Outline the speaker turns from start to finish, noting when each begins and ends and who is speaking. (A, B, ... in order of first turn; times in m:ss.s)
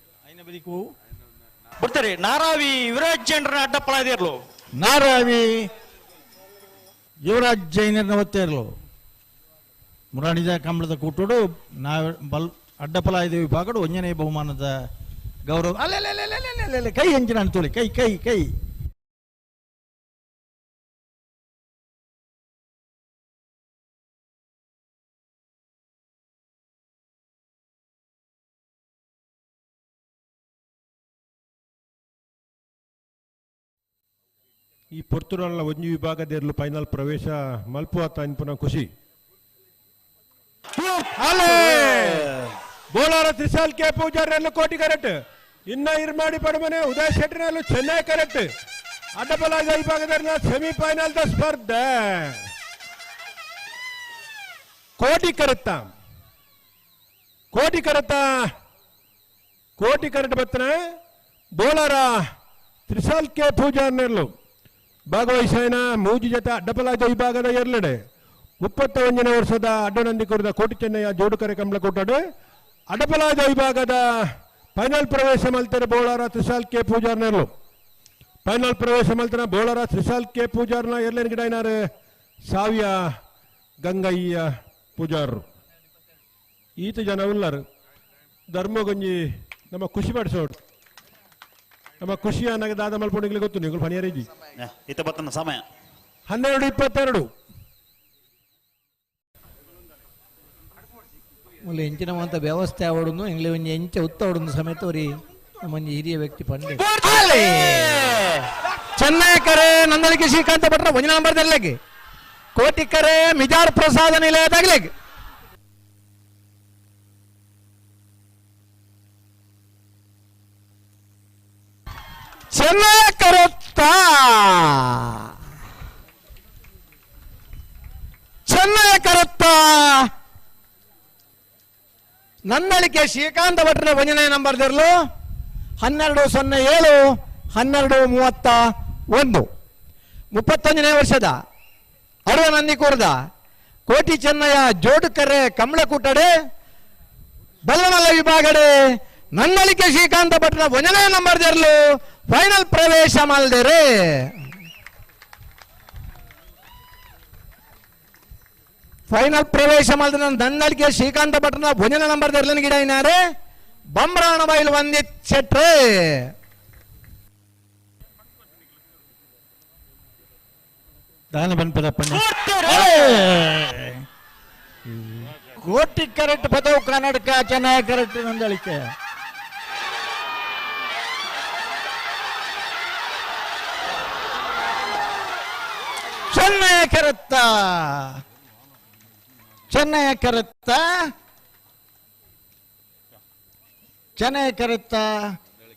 0:00.2-0:00.9 A
0:01.8-0:04.4 B
0:04.8-0:05.7 A
0:07.2-0:08.7 A
0:10.1-0:14.7 A
0:15.4-0:18.5 A
0:34.9-0:38.9 C
0:40.8-0:42.3 C
0:42.9-0:45.2 C
0:45.7-0:48.5 C
0:49.2-0:52.4 C
0:55.0-0:55.9 C
0:57.5-0:58.3 C
0:59.8-1:00.8 C
1:01.6-1:02.2 C
1:02.9-1:04.3 C
1:05.1-1:08.0 C
1:08.6-1:12.2 C
1:12.9-1:17.5 C
1:18.4-1:21.8 C
1:22.5-1:23.0 C
1:23.8-1:25.4 C
1:26.8-1:27.6 C
1:28.5-1:30.6 C
1:32.0-1:34.2 C
1:34.6-1:35.6 B
1:36.3-1:37.3 C
1:41.7-1:45.1 D
1:45.6-1:48.2 D
1:49.0-1:51.8 D
1:52.5-1:54.9 D
2:02.5-2:05.3 D
2:08.4-2:10.1 D
2:12.5-2:14.9 D
2:15.8-2:19.5 D
2:20.3-2:21.4 D
2:22.3-2:23.2 D
2:23.9-2:26.3 D
2:27.7-2:28.8 D
2:29.4-2:34.4 D
2:39.1-2:43.2 D
2:43.9-2:46.3 D
2:51.3-2:54.0 A
2:54.9-2:58.9 A
3:06.3-3:08.2 A
3:09.7-3:11.1 A
3:14.2-3:15.3 A